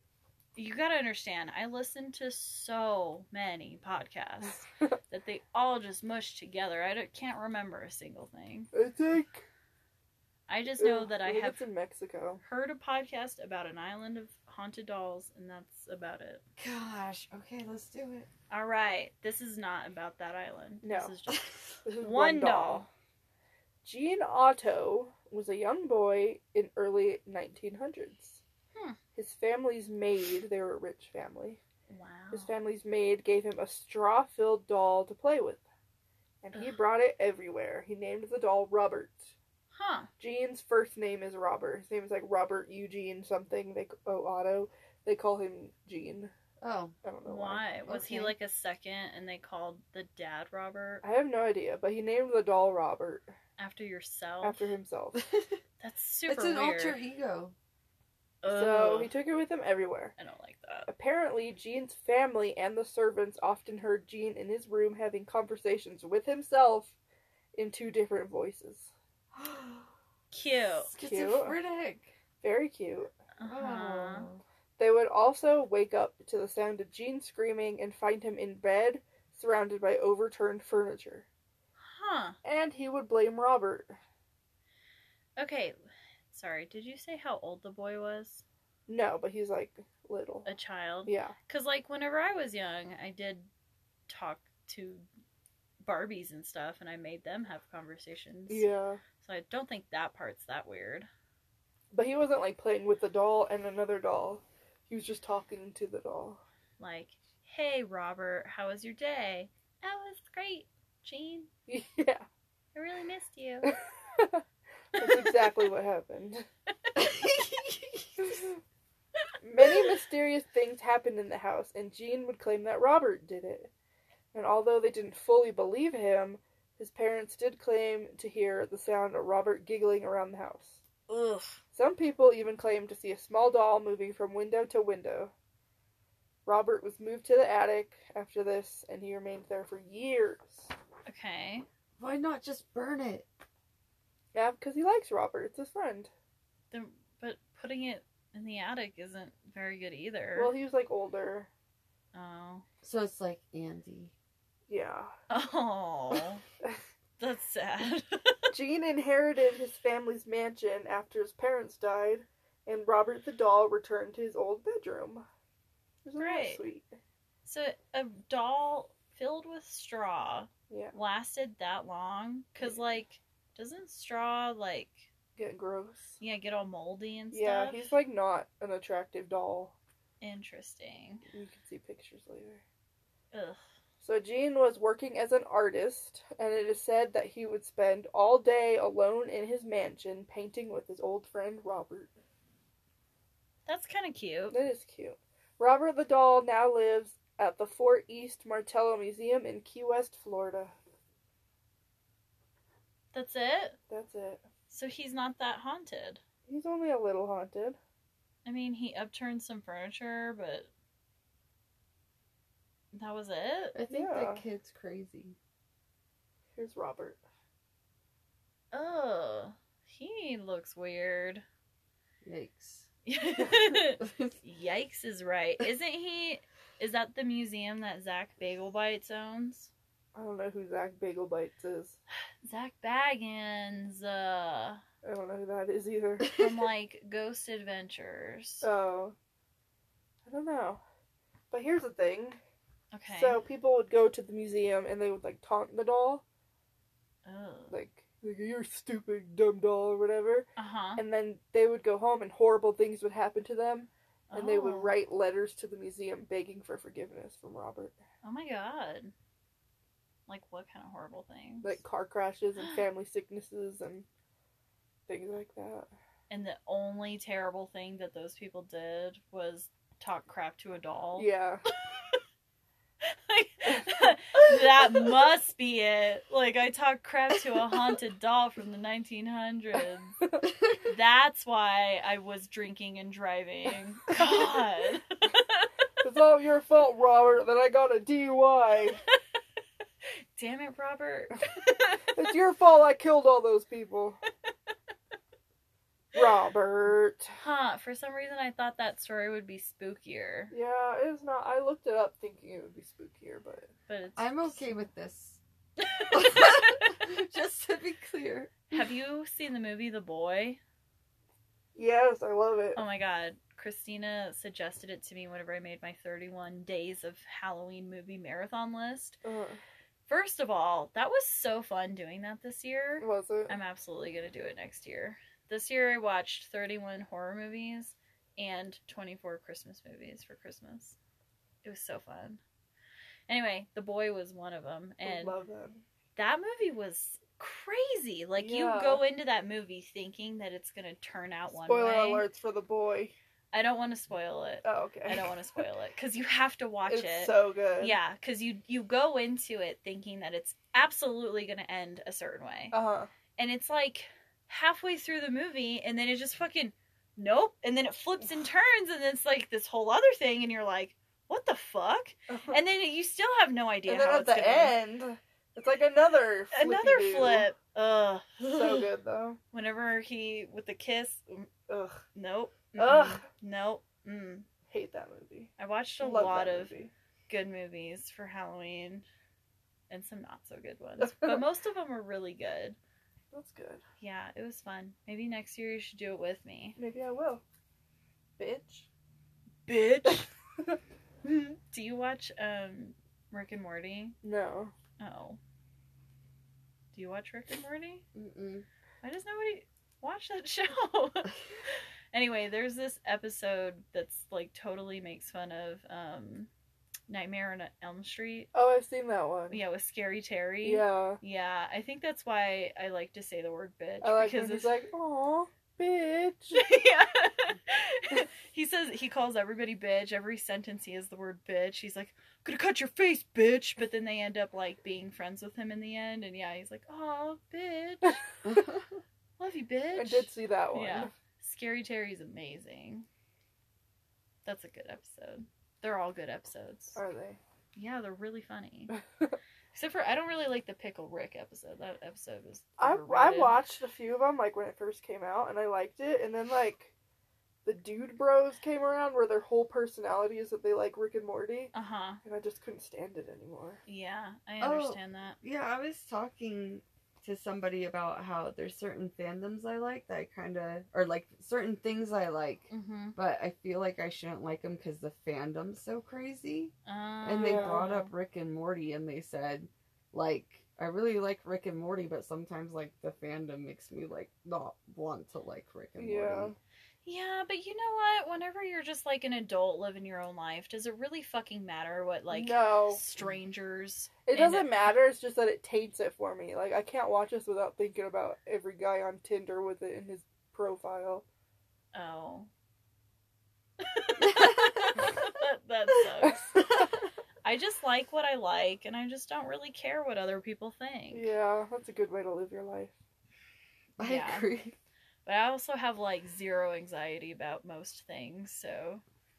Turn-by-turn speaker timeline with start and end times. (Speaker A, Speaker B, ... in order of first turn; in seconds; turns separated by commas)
Speaker A: 0.6-8.7, Speaker B: 8.7-9.4, Speaker A: 10.5-11.6, Speaker B: 10.8-12.4, Speaker A: 12.4-16.4, Speaker C: 16.6-18.3, Speaker A: 18.5-22.9, Speaker B: 20.8-21.1, Speaker B: 21.9-22.9, Speaker B: 23.8-28.4, Speaker B: 29.2-31.6, Speaker A: 31.9-32.5, Speaker B: 32.3-35.6, Speaker B: 36.4-39.3, Speaker A: 39.7-40.1, Speaker B: 40.2-46.3, Speaker C: 46.6-47.0, Speaker B: 47.0-47.7, Speaker A: 47.2-51.0, Speaker C: 47.9-48.4, Speaker B: 51.0-53.3, Speaker A: 53.6-54.7, Speaker B: 54.4-55.3, Speaker C: 55.3-55.6, Speaker A: 55.8-57.0, Speaker C: 56.3-57.5, Speaker A: 58.4-59.1, Speaker B: 58.5-60.1, Speaker A: 60.2-60.9, Speaker B: 60.9-67.0, Speaker B: 67.5-68.9, Speaker C: 69.3-69.9, Speaker A: 70.3-70.9, Speaker C: 70.8-72.1, Speaker B: 71.0-71.6, Speaker B: 72.4-81.3, Speaker A: 73.4-74.3, Speaker A: 81.8-82.4, Speaker B: 82.4-84.0, Speaker A: 85.4-85.8, Speaker A: 86.3-88.4, Speaker B: 88.9-90.5, Speaker A: 90.5-93.5, Speaker B: 91.1-91.3, Speaker A: 94.1-95.1, Speaker A: 95.8-98.7, Speaker B: 98.5-99.0, Speaker A: 99.2-101.1, Speaker B: 101.9-106.4, Speaker A: 106.8-111.5, Speaker B: 111.7-112.3, Speaker A: 112.7-113.7, Speaker B: 113.6-114.4, Speaker B: 115.0-116.5, Speaker C: 117.0-118.1, Speaker B: 119.4-123.7, Speaker B: 124.3-130.8, Speaker A: 131.1-131.6, Speaker B: 131.7-135.3, Speaker B: 136.5-140.7, Speaker A: 141.1-141.7, Speaker C: 142.0-143.3, Speaker B: 144.3-146.1, Speaker A: 146.7-150.5, Speaker B: 150.4-151.5, Speaker A: 152.1-152.6, Speaker C: 152.8-154.1, Speaker B: 154.7-155.1, Speaker A: 155.3-156.4, Speaker A: 157.2-158.5, Speaker B: 158.5-165.3, Speaker B: 166.1-167.0, Speaker A: 166.2-166.6, Speaker A: 167.4-175.1, Speaker B: 170.7-170.9, Speaker B: 175.4-176.2, Speaker A: 176.2-177.9, Speaker B: 177.3-179.8, Speaker A: 180.2-181.3, Speaker B: 181.3-182.6, Speaker A: 183.3-183.6, Speaker B: 184.0-192.1, Speaker A: 193.7-194.6, Speaker B: 194.5-200.7, Speaker A: 203.1-203.8, Speaker B: 203.9-204.4, Speaker A: 204.7-206.2, Speaker B: 206.5-207.8, Speaker A: 208.4-210.7, Speaker A: 212.9-213.8, Speaker C: 213.8-215.4, Speaker B: 213.9-214.4, Speaker B: 216.6-217.2, Speaker A: 218.7-221.4, Speaker C: 222.2-222.9, Speaker A: 223.1-229.7, Speaker C: 224.0-224.4, Speaker B: 230.2-232.0, Speaker A: 232.4-234.8, Speaker B: 235.0-236.3, Speaker A: 236.2-238.7, Speaker B: 238.6-239.2, Speaker B: 240.3-240.8, Speaker B: 241.5-242.4, Speaker A: 242.9-243.4, Speaker B: 243.1-246.2, Speaker A: 247.3-247.8, Speaker B: 247.7-258.0, Speaker A: 250.6-251.0, Speaker A: 254.3-255.0, Speaker A: 258.2-259.1, Speaker A: 260.3-261.8, Speaker B: 261.6-264.1, Speaker B: 265.1-265.9, Speaker A: 266.3-271.3, Speaker B: 271.2-271.6, Speaker A: 271.9-272.2, Speaker A: 273.0-280.2, Speaker A: 280.8-285.7, Speaker B: 286.0-289.0, Speaker A: 290.4-292.1, Speaker B: 292.1-294.2, Speaker B: 296.1-297.4, Speaker A: 297.4-300.5, Speaker B: 300.5-303.7, Speaker A: 303.9-304.8, Speaker C: 304.2-305.4, Speaker A: 305.8-306.9, Speaker C: 306.1-308.7, Speaker A: 308.7-310.6, Speaker B: 311.8-312.8, Speaker A: 312.8-319.2, Speaker B: 319.2-319.6, Speaker A: 320.1-331.0, Speaker B: 323.0-323.6, Speaker A: 331.6-332.4, Speaker A: 333.3-335.4, Speaker B: 335.0-335.8, Speaker A: 336.2-342.3, Speaker B: 338.4-339.0, Speaker B: 341.6-343.1, Speaker A: 343.5-352.8, Speaker B: 344.6-345.4, Speaker B: 346.9-348.0, Speaker B: 352.7-353.1, Speaker A: 353.4-364.8, Speaker B: 362.3-362.6, Speaker B: 363.9-367.5, Speaker A: 366.5-368.9, Speaker B: 368.4-369.4, Speaker A: 369.5-371.5, Speaker B: 371.7-372.0, Speaker A: 372.1-374.5, Speaker B: 372.8-373.2, Speaker B: 374.7-376.9, Speaker A: 375.6-376.7, Speaker A: 377.3-379.1, Speaker A: 379.9-382.8, Speaker B: 381.0-381.4, Speaker B: 383.3-383.8, Speaker A: 384.0-386.8, Speaker B: 386.8-387.4, Speaker B: 388.4-388.9, Speaker A: 389.7-390.3, Speaker B: 390.1-390.8, Speaker A: 391.2-394.2, Speaker B: 394.2-394.7, Speaker A: 395.0-395.4, Speaker A: 396.9-398.1, Speaker C: 398.1-398.7, Speaker A: 399.0-406.5, Speaker A: 407.1-408.5, Speaker B: 408.5-409.6, Speaker A: 409.5-414.8, Speaker B: 410.6-411.2, Speaker B: 414.0-416.6, Speaker A: 416.6-428.2, Speaker C: 428.4-429.0, Speaker A: 429.4-433.1, Speaker B: 430.0-431.1, Speaker A: 434.4-437.0, Speaker B: 437.0-437.4, Speaker A: 437.8-438.9, Speaker B: 439.0-439.4, Speaker A: 439.7-443.6, Speaker B: 442.8-446.9, Speaker B: 447.6-451.7, Speaker A: 451.7-452.2, Speaker B: 452.2-453.8, Speaker A: 453.9-455.4, Speaker C: 454.6-466.7, Speaker A: 462.7-463.2, Speaker A: 466.9-468.1, Speaker C: 467.2-476.5, Speaker B: 467.4-467.9, Speaker B: 476.0-476.6, Speaker A: 477.1-484.9, Speaker B: 482.3-483.0, Speaker B: 484.3-491.2, Speaker A: 491.9-492.5, Speaker A: 493.8-496.6, Speaker C: 494.2-495.1, Speaker A: 497.4-501.3, Speaker B: 501.1-502.9, Speaker C: 504.0-504.8, Speaker A: 504.0-504.5, Speaker A: 505.3-509.0